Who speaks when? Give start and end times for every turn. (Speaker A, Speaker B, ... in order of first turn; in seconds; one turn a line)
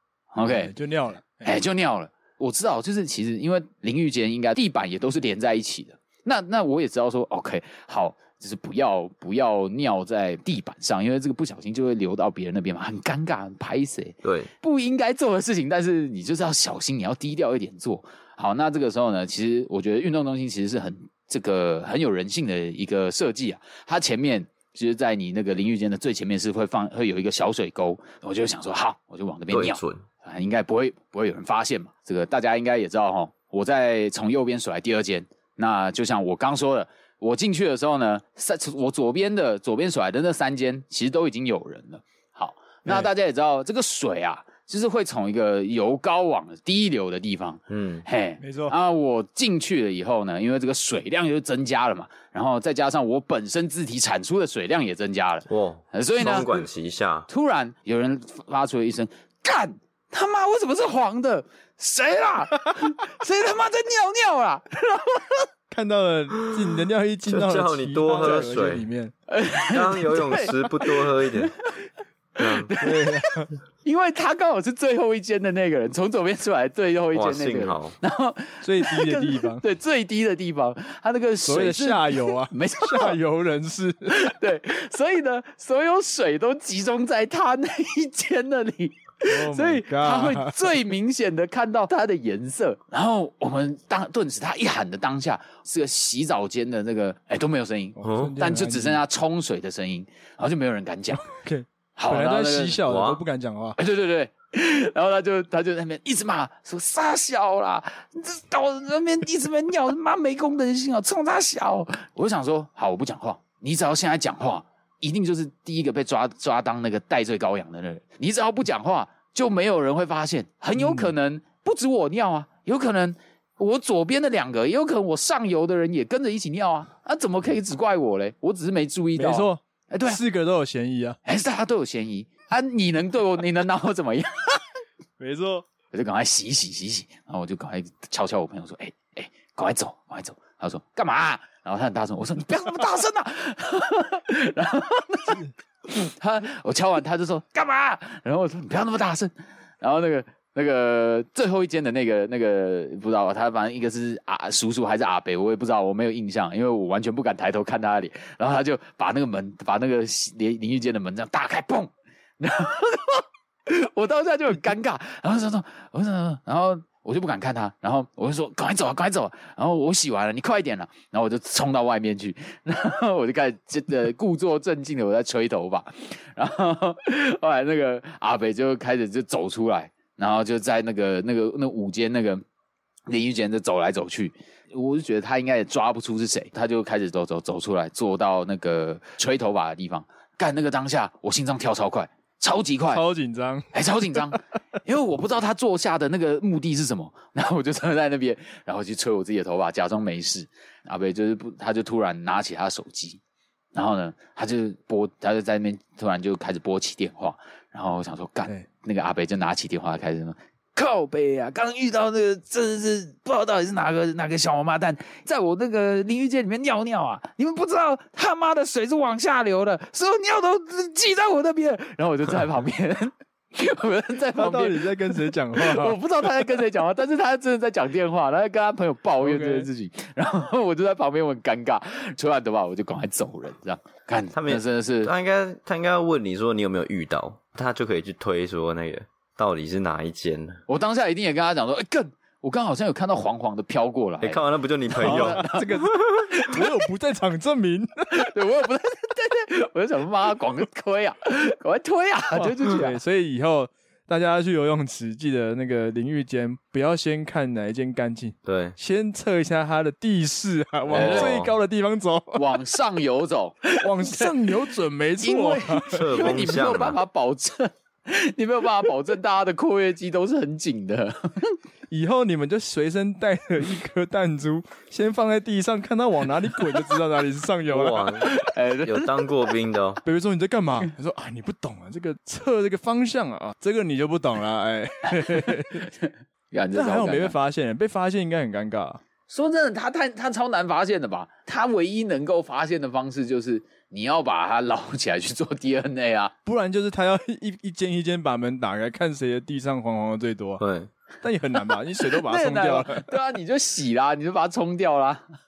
Speaker A: 0.3-0.7
Speaker B: 0.4-1.6
Speaker A: 1.4-56.7
Speaker C: 14.2-14.5
Speaker C: 29.5-30.0
Speaker C: 47.7-48.0
Speaker B: 48.4-48.8
Speaker C: 55.5-57.3
Speaker A: 57.3-65.5
Speaker B: 65.7-69.1
Speaker C: 67.3-68.8
Speaker A: 69.3-71.9
Speaker C: 69.7-71.5
Speaker C: 72.4-72.8
Speaker A: 72.4-73.1
Speaker B: 72.8-73.5
Speaker A: 73.8-83.2
Speaker C: 77.1-77.9
Speaker B: 78.6-79.6
Speaker B: 81.5-84.1
Speaker A: 84.1-101.3
Speaker B: 89.3-90.9
Speaker B: 98.0-99.0
Speaker C: 98.0-98.3
Speaker B: 101.2-103.8
Speaker A: 102.0-102.8
Speaker C: 102.9-103.2
Speaker A: 103.8-130.2
Speaker B: 120.8-121.1
Speaker B: 129.2-131.2
Speaker A: 131.2-134.6
Speaker B: 135.2-135.7
Speaker A: 135.9-182.4
Speaker A: 183.1-193.0
Speaker B: 192.9-194.2
Speaker A: 193.7-203.2
Speaker A: 203.7-235.1
Speaker B: 224.3-226.0
Speaker B: 229.2-229.7
Speaker C: 234.3-240.6
Speaker A: 240.7-246.6
Speaker C: 244.2-245.9
Speaker B: 245.0-248.1
Speaker A: 248.1-253.0
Speaker B: 252.3-262.5
Speaker C: 258.4-258.8
Speaker A: 260.9-261.4
Speaker C: 260.9-261.5
Speaker A: 262.3-264.3
Speaker B: 263.8-266.0
Speaker A: 265.2-271.5
Speaker C: 265.9-267.0
Speaker B: 271.9-278.1
Speaker C: 277.7-280.0
Speaker A: 278.2-279.3
Speaker B: 280.0-285.9
Speaker A: 285.1-287.4
Speaker B: 286.7-289.0
Speaker A: 289.3-296.3
Speaker B: 296.4-300.6
Speaker C: 300.6-300.9
Speaker B: 301.2-303.1
Speaker A: 302.0-305.2